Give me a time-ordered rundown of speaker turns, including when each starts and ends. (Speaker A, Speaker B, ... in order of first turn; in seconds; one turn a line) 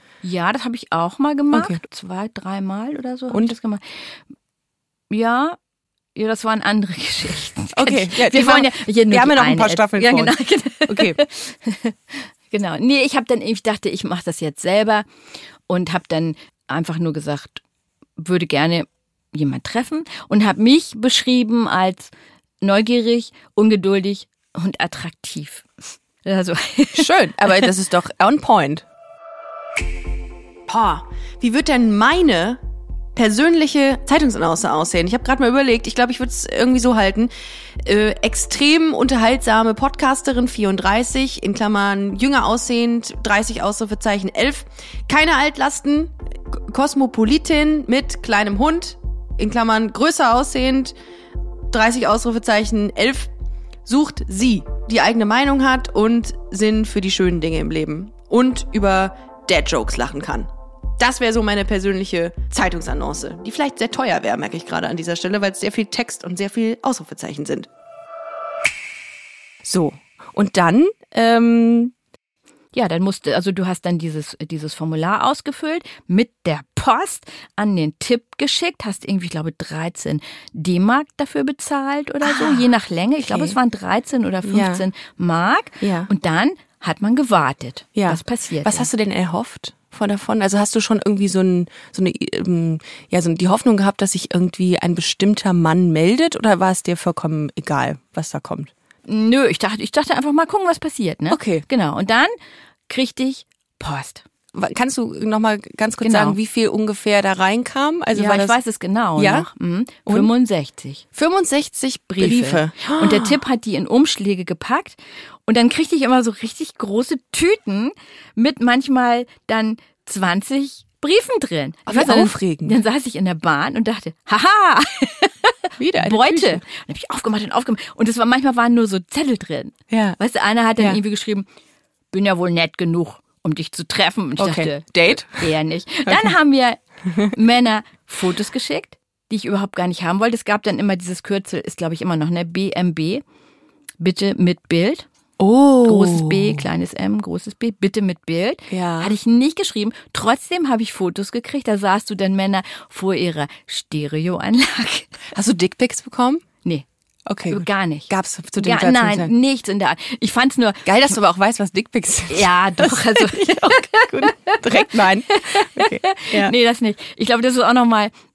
Speaker A: 0.2-3.8
Speaker B: 1.5-1.8
Speaker A: 5.1-5.6
Speaker A: 6.2-15.1
Speaker B: 7.8-10.4
Speaker B: 10.9-11.2
Speaker A: 15.7-17.6
Speaker A: 18.2-22.1
Speaker A: 22.6-25.7
Speaker A: 26.2-27.7
Speaker B: 26.9-28.8
Speaker B: 30.7-32.6
Speaker B: 33.2-37.3
Speaker B: 37.9-50.9
Speaker B: 51.7-53.3
Speaker B: 53.9-67.7
Speaker B: 69.6-71.9
Speaker A: 72.7-88.9
Speaker B: 82.2-82.7
Speaker B: 83.2-83.6
Speaker B: 84.4-84.8
Speaker B: 85.8-86.1
Speaker B: 88.0-98.7
Speaker A: 99.1-102.3
Speaker B: 101.3-101.7
Speaker A: 102.9-104.2
Speaker B: 104.5-108.6
Speaker A: 106.0-106.4
Speaker A: 108.2-111.0
Speaker B: 109.2-109.5
Speaker B: 111.1-113.4
Speaker A: 112.2-131.4
Speaker B: 121.9-122.8
Speaker B: 125.8-126.6
Speaker B: 129.9-130.2
Speaker A: 132.1-143.2
Speaker B: 134.4-135.4
Speaker B: 136.1-136.3
Speaker A: 144.0-145.1
Speaker B: 145.4-146.6
Speaker A: 145.8-155.1
Speaker B: 148.7-149.1
Speaker B: 155.3-156.4
Speaker B: 157.3-159.3
Speaker A: 157.5-161.1
Speaker B: 160.8-166.5
Speaker A: 162.3-168.1